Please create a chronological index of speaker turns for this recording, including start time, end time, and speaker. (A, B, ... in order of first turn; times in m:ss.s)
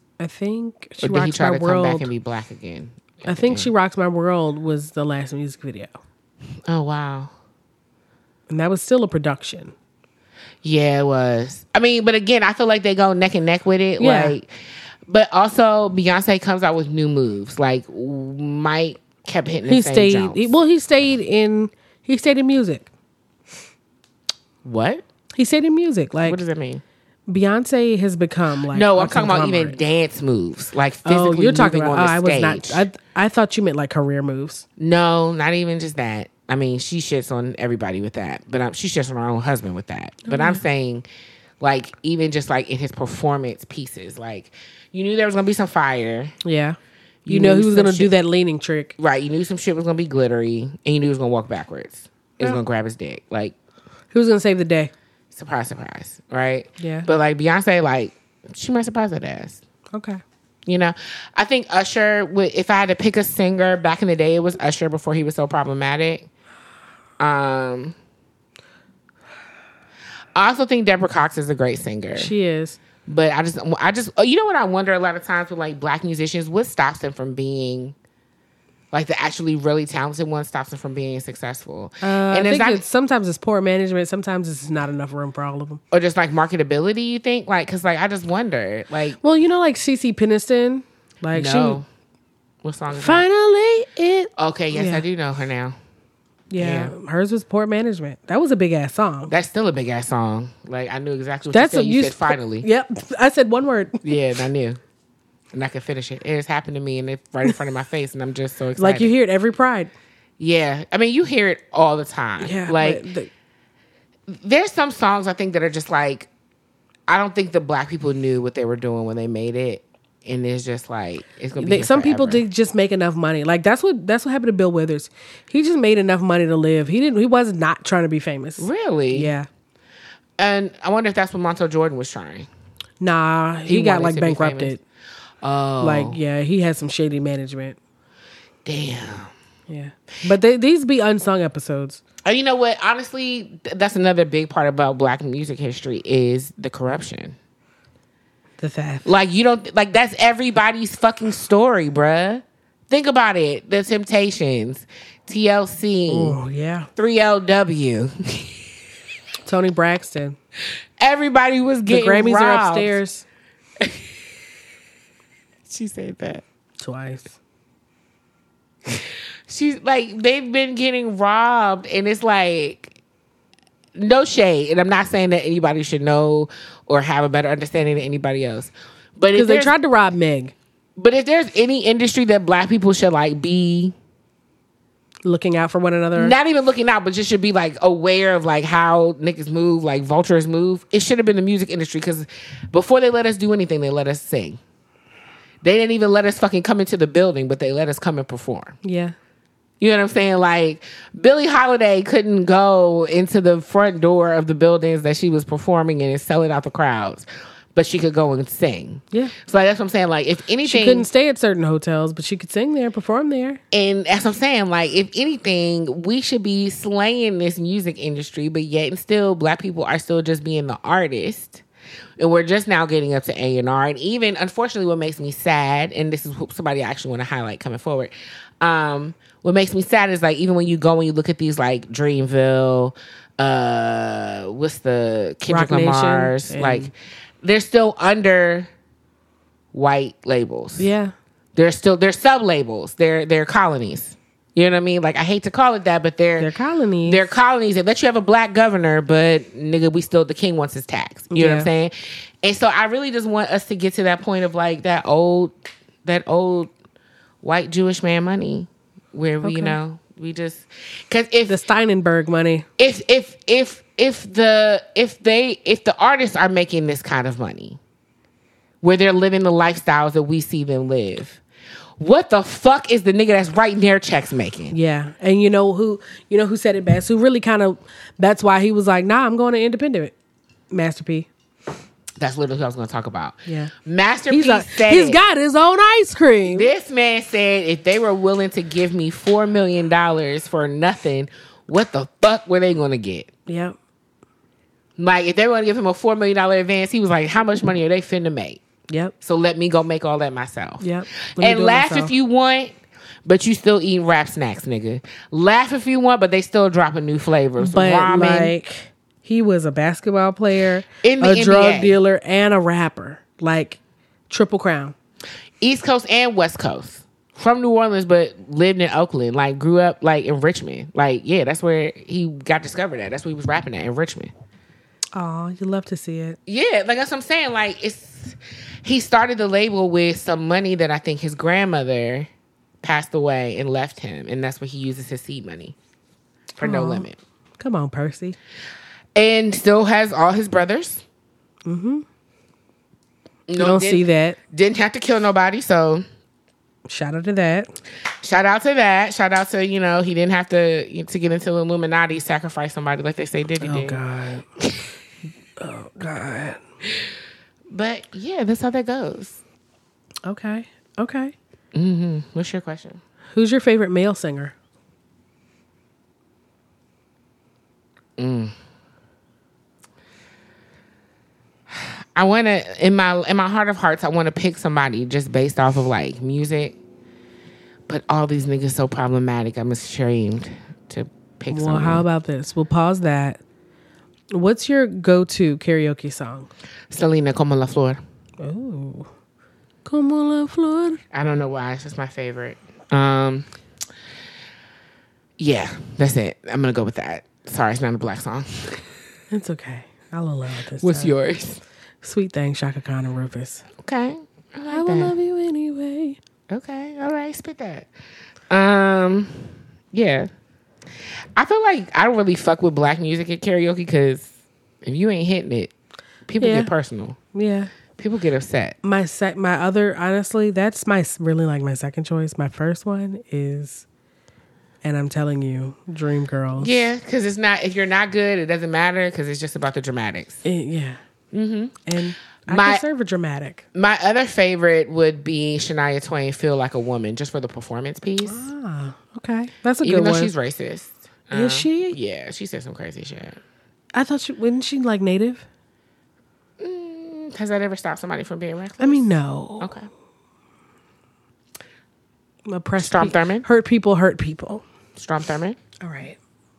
0:00.2-0:02.1 A
0:01.0-0:03.7 B
0:03.2-0:05.9 A
0:06.7-0:07.3 B
0:08.5-0:09.7 A
0:10.6-0:14.5 B
0:14.0-0:14.4 A
0:15.1-0:20.5 B
0:19.7-0:22.9 A
0:24.6-0:25.0 B
0:25.3-0:26.4 A
0:26.2-0:26.8 B
0:27.3-0:29.8 A
0:28.7-0:32.8 B
0:31.0-0:34.6 A
0:34.8-0:41.0 B
0:40.2-0:40.6 A
0:41.6-0:46.3 B
0:46.4-0:46.8 A
0:47.2-0:48.1 B
0:47.3-0:48.9 A
0:49.0-0:53.5 B
0:54.1-0:54.9 A
0:55.3-0:59.6 B
0:56.8-0:57.1 A
0:59.9-1:00.2 A
1:00.6-1:06.3 B
1:07.2-1:07.9 B
1:10.3-1:12.3 B
1:12.2-1:12.8 A
1:13.0-1:17.9 B
1:18.9-1:22.8 B
1:22.0-1:25.8 A
1:25.9-1:29.2 B
1:29.2-1:31.8 A
1:31.3-1:31.8 B
1:32.6-1:33.2 B
1:32.9-1:35.0 A
1:34.4-1:35.8 B
1:36.5-1:39.3 A
1:36.6-1:36.9 B
1:39.3-1:42.7 B
1:41.5-1:44.0 A
1:44.0-1:44.8 B
1:45.5-1:49.1 B
1:48.8-1:49.9 A
1:50.4-1:53.0 B
1:52.4-1:53.3 A
1:54.3-1:56.3 B
1:57.1-2:02.4 B
2:01.6-2:09.5 A
2:08.6-2:09.3 B
2:10.4-2:12.5 B
2:13.0-2:14.8 A
2:13.6-2:14.7 B
2:15.4-2:16.2 B
2:15.8-2:17.8 A
2:18.6-2:19.3 B
2:19.7-2:22.0 A
2:22.2-2:27.4 B
2:28.6-2:29.1 A
2:29.0-2:36.4 B
2:36.1-2:36.9 A
2:37.0-2:38.6 B
2:39.4-2:40.4 A
2:41.0-2:43.0 B
2:41.9-2:43.2 A
2:45.7-2:46.4 B
2:46.8-2:47.3 A
2:48.9-2:53.0 B
2:53.9-2:59.7 B
2:59.3-3:00.5 A
3:01.0-3:03.9 B
3:05.2-3:06.3 A
3:06.1-3:14.6 B
3:15.6-3:18.8 B
3:18.8-3:19.1 A
3:19.8-3:31.1 B
3:30.6-3:33.6 A
3:33.7-3:41.6 B
3:42.2-3:58.7 B
3:55.5-3:56.9 A
3:59.7-4:00.9 B
4:00.8-4:01.1 A
4:01.5-4:06.5 B
4:06.4-4:07.2 A
4:07.0-4:15.5 B
4:11.3-4:11.7 A
4:16.0-4:16.7 B
4:17.4-4:21.6 B
4:19.4-4:19.8 A
4:21.5-4:22.6 A
4:22.8-4:27.8 B
4:28.8-4:31.4 B
4:32.0-4:34.7 B
4:34.7-4:40.1 A
4:40.7-4:41.3 A
4:42.2-4:45.2 B
4:43.4-4:43.7 A
4:44.3-4:46.7 A
4:46.4-4:53.3 B
4:53.5-4:53.8 A
4:55.0-4:58.6 B
4:59.2-5:08.5 B
5:00.8-5:02.1 A
5:07.6-5:13.8 A
5:11.0-5:12.0 B
5:14.3-5:14.9 A
5:15.6-5:24.3 B
5:25.1-5:26.4 A
5:26.4-5:32.3 B
5:32.8-5:35.7 B
5:36.6-5:37.2 B
5:36.6-5:37.1 A
5:37.6-5:38.4 A
5:39.1-5:41.0 B
5:41.6-5:42.0 A
5:43.5-5:46.0 B
5:43.6-5:44.4 A
5:46.9-5:47.7 A
5:48.2-5:54.0 B
5:53.6-5:54.4 A
5:55.6-5:56.6 A
5:57.7-5:59.4 B
6:00.2-6:01.3 A
6:01.7-6:03.0 B
6:03.3-6:04.5 A
6:08.2-6:08.5 B
6:11.7-6:16.8 B
6:17.9-6:22.0 B
6:21.5-6:23.4 A
6:24.3-6:26.5 A
6:26.9-6:28.0 B
6:28.4-6:29.1 A
6:29.8-6:31.0 A
6:31.1-6:33.5 B
6:35.4-6:38.8 B
6:39.3-6:41.1 A
6:40.8-6:41.6 B
6:42.0-6:43.6 A
6:43.8-6:45.1 B
6:44.7-6:46.2 A
6:46.5-6:47.9 B
6:48.5-6:50.3 B
6:51.4-6:54.3 B
6:54.8-6:55.7 B
6:56.3-6:57.2 B
6:56.4-6:56.7 A
6:57.3-6:57.7 A
6:58.0-6:58.8 B
6:58.8-7:03.8 A
7:04.8-7:06.8 A
7:06.6-7:10.4 B
7:10.4-7:11.0 A
7:11.3-7:11.8 B
7:11.8-7:13.6 A
7:12.5-7:12.8 B
7:13.7-7:18.5 B
7:18.2-7:20.3 A
7:19.8-7:23.4 B
7:21.3-7:22.0 A
7:23.9-7:25.4 A
7:26.6-7:29.1 B
7:28.8-7:29.7 A
7:29.6-7:29.9 B
7:32.5-7:34.6 A
7:32.8-7:33.4 B
7:35.0-7:35.6 B
7:35.8-7:36.2 A